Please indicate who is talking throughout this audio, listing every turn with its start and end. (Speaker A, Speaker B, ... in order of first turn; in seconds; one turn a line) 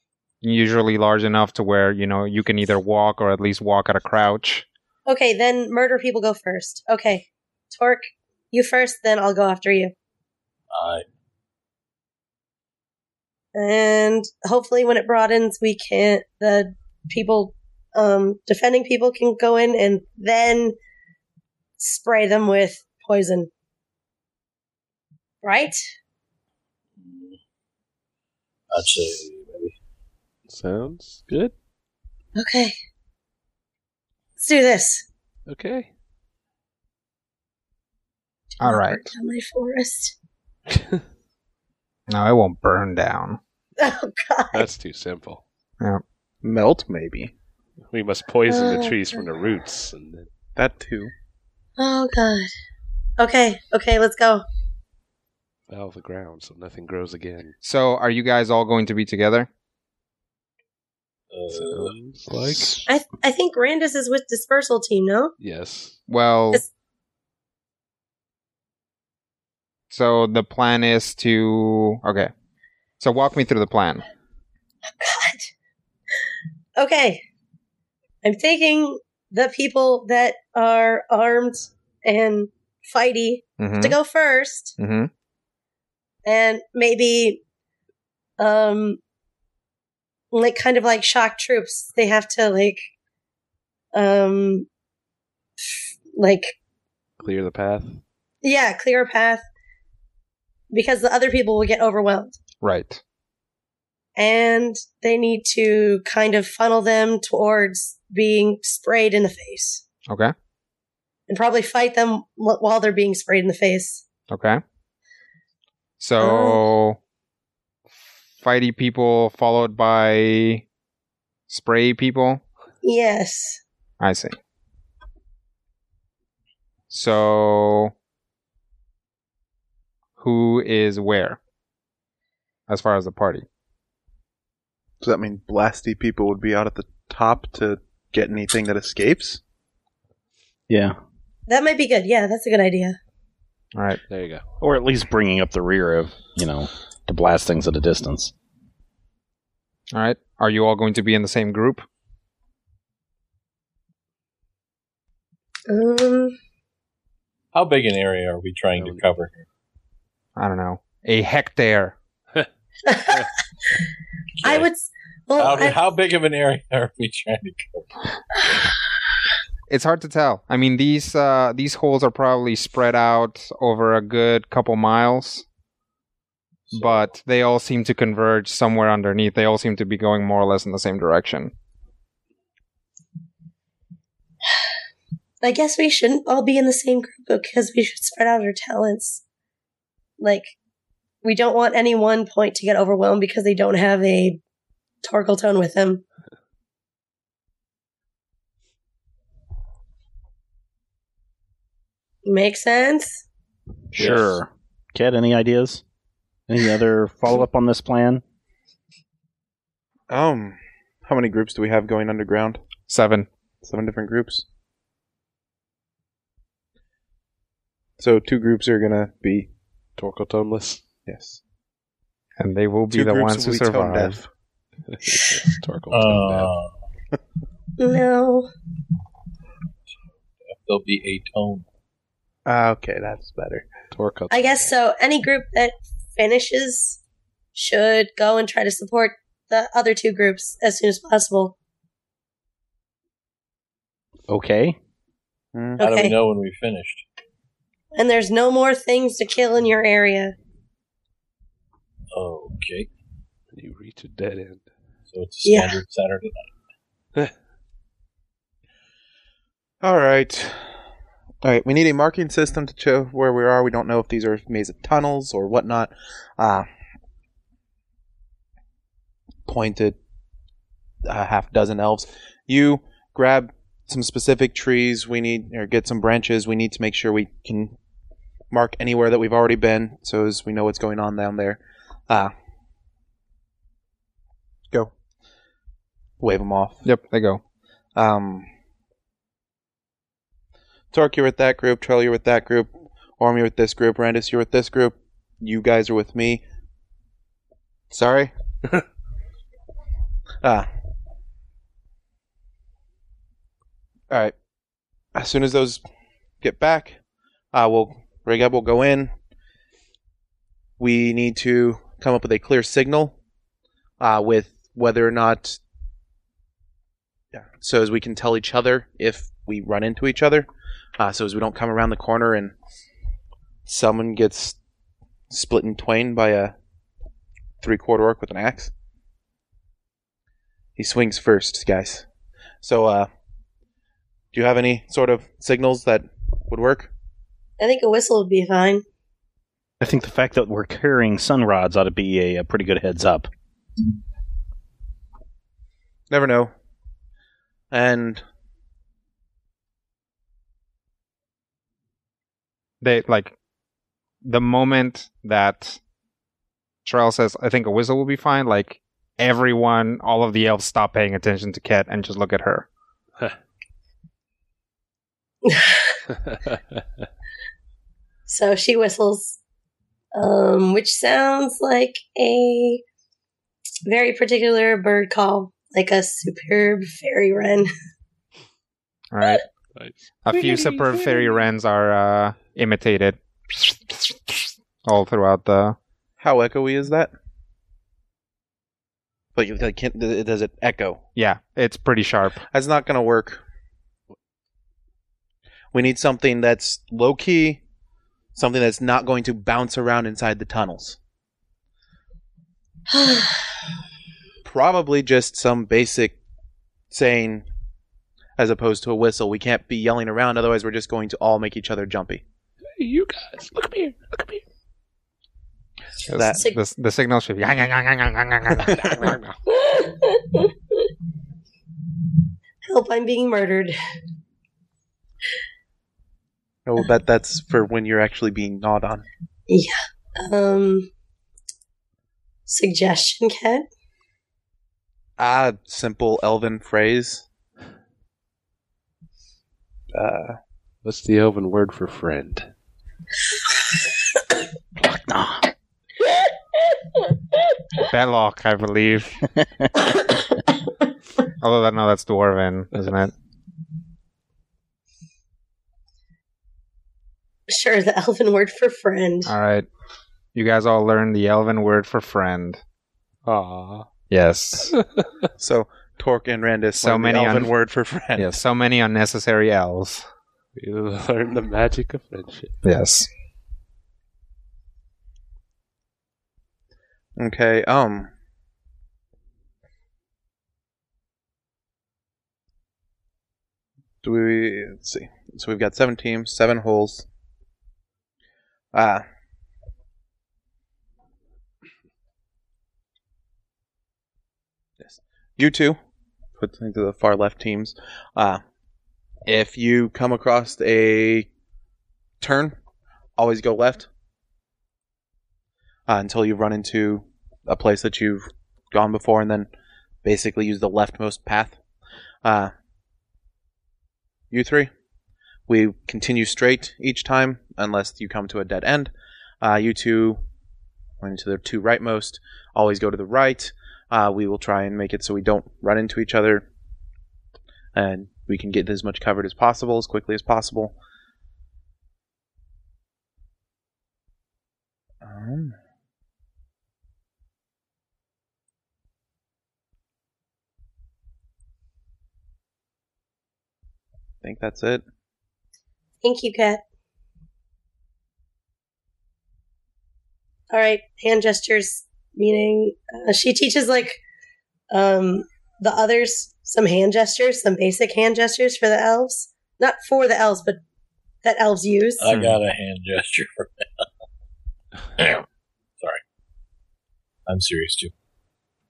Speaker A: 0.4-4.7
Speaker B: 5.1-9.9
Speaker C: 10.7-11.0
Speaker B: 13.5-20.8
Speaker B: 21.8-23.5
Speaker B: 25.4-25.8
Speaker C: 27.0-27.4
Speaker C: 28.7-29.8
Speaker D: 30.5-31.5
Speaker B: 32.4-32.8
Speaker B: 34.4-35.0
Speaker D: 35.5-35.9
Speaker B: 38.5-40.1
Speaker A: 38.6-39.1
Speaker D: 40.7-41.0
Speaker A: 42.1-43.4
Speaker B: 43.8-44.6
Speaker D: 44.5-45.4
Speaker E: 46.4-47.3
Speaker D: 47.9-50.3
Speaker B: 48.5-49.0
Speaker E: 50.5-51.1
Speaker B: 51.8-52.5
Speaker B: 53.2-54.4
Speaker D: 55.7-57.5
Speaker A: 57.6-59.5
Speaker C: 61.3-62.0
Speaker D: 61.5-62.8
Speaker B: 62.9-65.3
Speaker D: 65.4-66.0
Speaker A: 66.1-66.6
Speaker A: 69.9-72.3
Speaker A: 73.0-74.0
Speaker B: 75.0-75.5
Speaker B: 76.8-77.2
Speaker B: 78.2-84.8
Speaker A: 83.6-84.0
Speaker A: 84.8-85.1
Speaker B: 86.2-87.4
Speaker B: 88.4-89.0
Speaker B: 90.3-92.9
Speaker B: 93.9-94.7
Speaker B: 95.6-96.5
Speaker D: 97.2-98.0
Speaker B: 98.4-99.4
Speaker B: 100.7-102.3
Speaker A: 102.6-103.0
Speaker B: 104.2-109.8
Speaker A: 110.1-110.3
Speaker B: 111.3-114.0
Speaker A: 114.3-114.6
Speaker A: 116.0-117.0
Speaker B: 116.2-116.6
Speaker A: 118.4-120.6
Speaker A: 121.5-122.4
Speaker B: 122.8-123.6
Speaker A: 124.0-124.4
Speaker A: 126.9-127.9
Speaker A: 130.2-131.4
Speaker A: 132.7-133.4
Speaker E: 135.0-139.4
Speaker F: 140.7-141.0
Speaker B: 141.5-143.0
Speaker A: 143.7-144.0
Speaker D: 144.1-144.4
Speaker F: 144.6-148.3
Speaker A: 149.9-151.9
Speaker B: 155.7-156.3
Speaker C: 157.5-159.4
Speaker D: 158.8-159.0
Speaker A: 160.4-161.9
Speaker B: 162.8-163.3
Speaker C: 164.4-164.7
Speaker B: 164.4-165.8
Speaker C: 165.4-167.9
Speaker A: 169.7-175.4
Speaker A: 176.7-181.5
Speaker B: 185.4-189.2
Speaker B: 190.2-190.5
Speaker B: 191.2-194.4
Speaker B: 195.0-196.0
Speaker B: 202.2-203.2
Speaker F: 203.9-205.8
Speaker E: 204.0-204.3
Speaker F: 206.5-208.2
Speaker E: 210.1-212.6
Speaker A: 212.9-213.3
Speaker E: 213.6-214.4
Speaker E: 218.0-219.5
Speaker D: 220.0-220.8
Speaker E: 221.1-221.4
Speaker A: 222.4-224.2
Speaker E: 222.9-224.3
Speaker D: 224.9-226.5
Speaker C: 225.9-226.8
Speaker B: 227.8-228.5
Speaker C: 230.4-231.6
Speaker E: 232.4-233.7
Speaker D: 233.9-234.7
Speaker B: 234.3-237.0
Speaker B: 237.5-241.5
Speaker F: 244.3-244.8
Speaker E: 245.5-245.9
Speaker B: 245.8-246.1
Speaker C: 245.8-247.0
Speaker B: 247.9-250.3
Speaker C: 252.1-252.9
Speaker D: 253.5-254.6
Speaker C: 255.1-256.5
Speaker B: 255.4-255.7
Speaker E: 259.8-260.8
Speaker E: 261.4-266.7
Speaker E: 269.4-270.0
Speaker E: 271.0-277.7
Speaker E: 278.5-282.3
Speaker E: 286.2-286.8
Speaker A: 286.9-287.4
Speaker E: 287.9-288.5
Speaker E: 290.9-296.4
Speaker E: 297.9-298.3
Speaker E: 305.1-305.8
Speaker E: 306.4-307.0
Speaker E: 307.5-309.1
Speaker E: 310.8-313.1
Speaker E: 314.0-315.6
Speaker E: 317.3-322.5
Speaker E: 323.6-324.6
Speaker E: 325.3-326.5
Speaker E: 327.6-328.7
Speaker E: 330.8-332.1
Speaker E: 332.6-333.1
Speaker E: 334.3-336.9
Speaker B: 337.6-338.8
Speaker F: 339.8-343.3
Speaker E: 346.1-346.5
Speaker E: 347.7-348.2
Speaker A: 352.8-353.4
Speaker A: 354.2-355.8
Speaker A: 356.9-362.7
Speaker B: 365.4-366.0
Speaker B: 368.3-369.4
Speaker B: 370.1-372.8
Speaker B: 373.9-377.7
Speaker A: 379.1-379.4
Speaker D: 379.8-380.0
Speaker A: 380.2-385.8
Speaker B: 380.3-381.5
Speaker E: 386.2-387.1
Speaker E: 389.4-391.0
Speaker A: 391.1-392.4
Speaker E: 392.5-393.4
Speaker E: 395.7-397.6
Speaker E: 398.4-401.0
Speaker B: 402.9-403.4
Speaker E: 404.4-406.2
Speaker E: 406.9-407.4
Speaker E: 408.4-412.2
Speaker D: 412.8-414.4
Speaker A: 416.1-419.1
Speaker E: 416.1-416.4
Speaker D: 419.0-419.3
Speaker B: 419.5-420.9
Speaker B: 422.6-423.7
Speaker E: 426.6-429.0
Speaker B: 429.5-430.9
Speaker B: 432.5-433.6
Speaker E: 435.2-437.2
Speaker E: 439.9-440.4
Speaker D: 440.8-442.5
Speaker F: 444.8-445.5
Speaker A: 447.8-449.2
Speaker A: 451.4-453.1
Speaker B: 457.5-459.3
Speaker A: 459.2-459.7
Speaker A: 460.4-462.6
Speaker D: 463.2-463.9
Speaker A: 464.1-464.7
Speaker D: 464.7-465.0
Speaker E: 465.4-468.3
Speaker A: 466.8-467.5
Speaker A: 468.1-470.1
Speaker D: 470.6-472.5
Speaker A: 472.6-473.1
Speaker E: 477.2-478.1
Speaker E: 484.0-487.1
Speaker E: 488.7-489.1
Speaker E: 494.8-495.8
Speaker E: 496.4-498.4
Speaker E: 499.3-501.3
Speaker E: 502.2-502.6
Speaker E: 503.1-503.9
Speaker E: 505.9-509.5
Speaker E: 510.0-511.6
Speaker E: 512.2-512.5
Speaker E: 514.3-514.7
Speaker E: 515.5-520.2
Speaker E: 521.0-526.5
Speaker E: 527.7-530.7
Speaker E: 535.0-535.6
Speaker E: 544.2-544.8
Speaker B: 546.0-546.6
Speaker B: 550.5-554.0
Speaker B: 554.7-560.6
Speaker B: 561.2-562.1
Speaker C: 562.0-563.9
Speaker A: 562.1-562.4
Speaker C: 565.0-565.2
Speaker C: 567.2-567.9